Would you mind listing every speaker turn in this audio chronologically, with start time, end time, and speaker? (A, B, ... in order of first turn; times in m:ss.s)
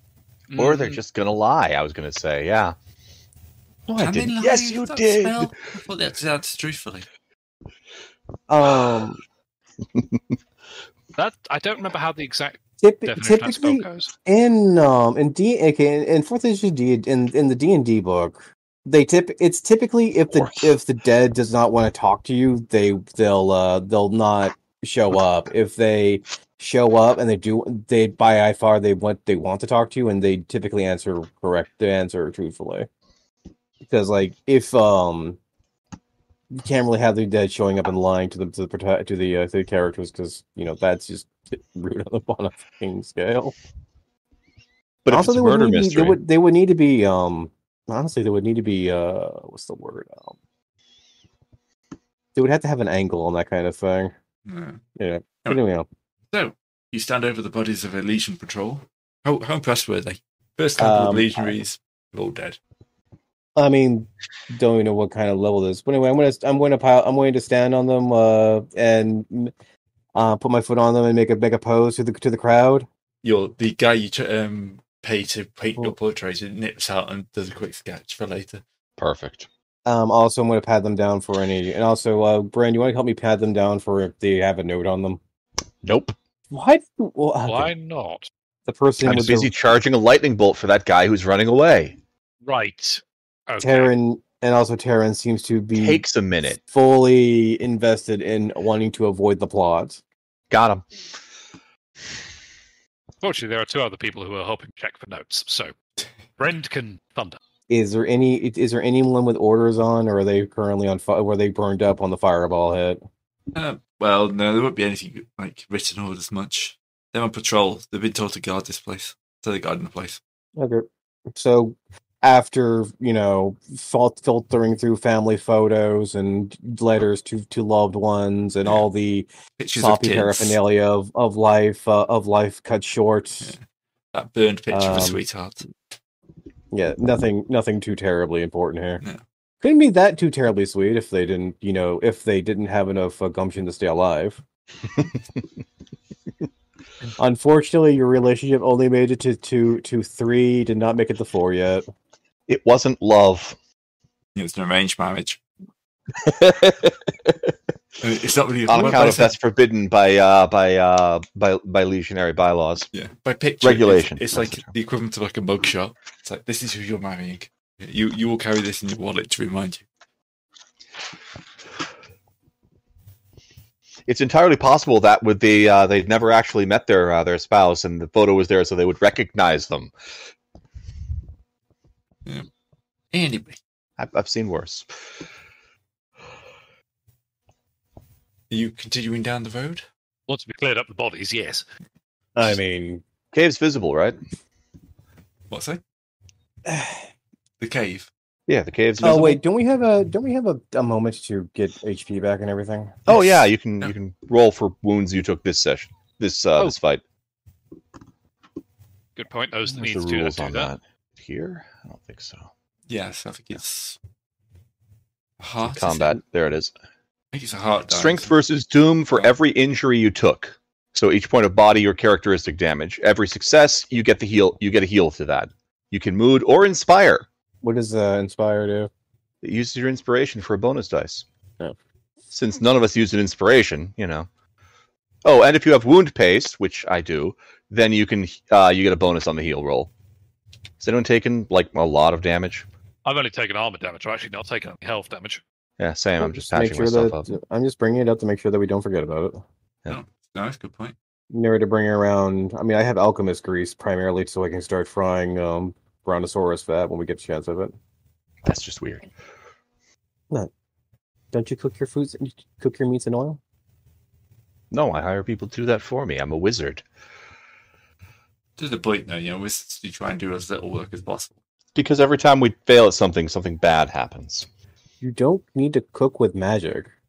0:00.5-0:01.0 A
0:00.5-0:02.8 B
0:03.9-0:07.0 C
0:03.9-0:05.6 B
0:08.5-0:09.2 D
0:11.2-0:14.1 A
0:12.8-0:32.9 D
0:20.4-0:20.7 B
0:33.8-0:35.4 D
0:36.5-0:43.5 D
0:45.0-0:46.2 B
0:45.1-0:50.3 D
0:52.3-0:54.1 D
0:54.4-0:54.8 C
0:55.0-0:55.9 D
0:56.3-1:02.6 C
1:00.8-1:01.6 D
1:03.6-1:09.5 D
1:10.1-1:12.9 D
1:13.2-1:18.6 C
1:19.0-1:19.5 B
1:19.8-1:25.2 D
1:25.8-1:26.2 B
1:26.5-1:27.7 D
1:27.5-1:28.3 A
1:28.7-1:29.5 D
1:29.0-1:32.0 B
1:32.4-1:33.9 A
1:33.6-1:36.0 D
1:35.7-1:36.6 B
1:36.7-1:40.0 D
1:40.5-1:40.8 B
1:43.2-1:45.7 A
1:46.4-1:47.4 A
1:47.7-1:53.0 D
1:53.5-2:00.2 C
2:00.6-2:13.5 D
2:09.6-2:10.6 C
2:14.1-2:15.6 C
2:14.7-2:15.2 D
2:16.7-2:19.0 D
2:19.6-2:24.4 D
2:27.2-2:31.8 D
2:32.5-2:33.6 B
2:34.3-2:35.4 C
2:36.2-2:37.3 B
2:38.0-2:39.3 C
2:38.7-2:42.9 B
2:42.9-2:49.8 C
2:43.6-2:44.7 B
2:54.1-2:59.9 B
3:03.1-3:03.6 C
3:04.0-3:04.9 B
3:08.5-3:09.8 C
3:10.3-3:11.6 A
3:12.4-3:13.0 D
3:13.3-3:14.2 B
3:15.5-3:15.8 C
3:16.6-3:17.0 D
3:17.6-3:18.1 C
3:18.5-3:19.4 B
3:19.0-3:23.0 D
3:23.1-3:27.0 B
3:23.1-3:23.9 C
3:29.2-3:30.7 A
3:29.7-3:32.5 B
3:32.9-3:34.0 C
3:35.4-3:36.2 C
3:35.6-3:36.7 B
3:37.3-3:38.3 C
3:37.9-3:47.2 B
3:47.6-3:48.9 D
3:49.4-3:51.2 B
3:52.3-3:54.3 B
3:55.2-3:59.9 B
4:00.8-4:02.6 B
4:03.0-4:05.4 A
4:05.8-4:07.3 B
4:06.2-4:09.4 D
4:09.9-4:10.9 C
4:11.3-4:17.7 D
4:18.4-4:19.1 B
4:21.3-4:23.4 D
4:24.7-4:26.8 B
4:28.6-4:31.4 C
4:31.7-4:34.5 B
4:35.0-4:36.9 D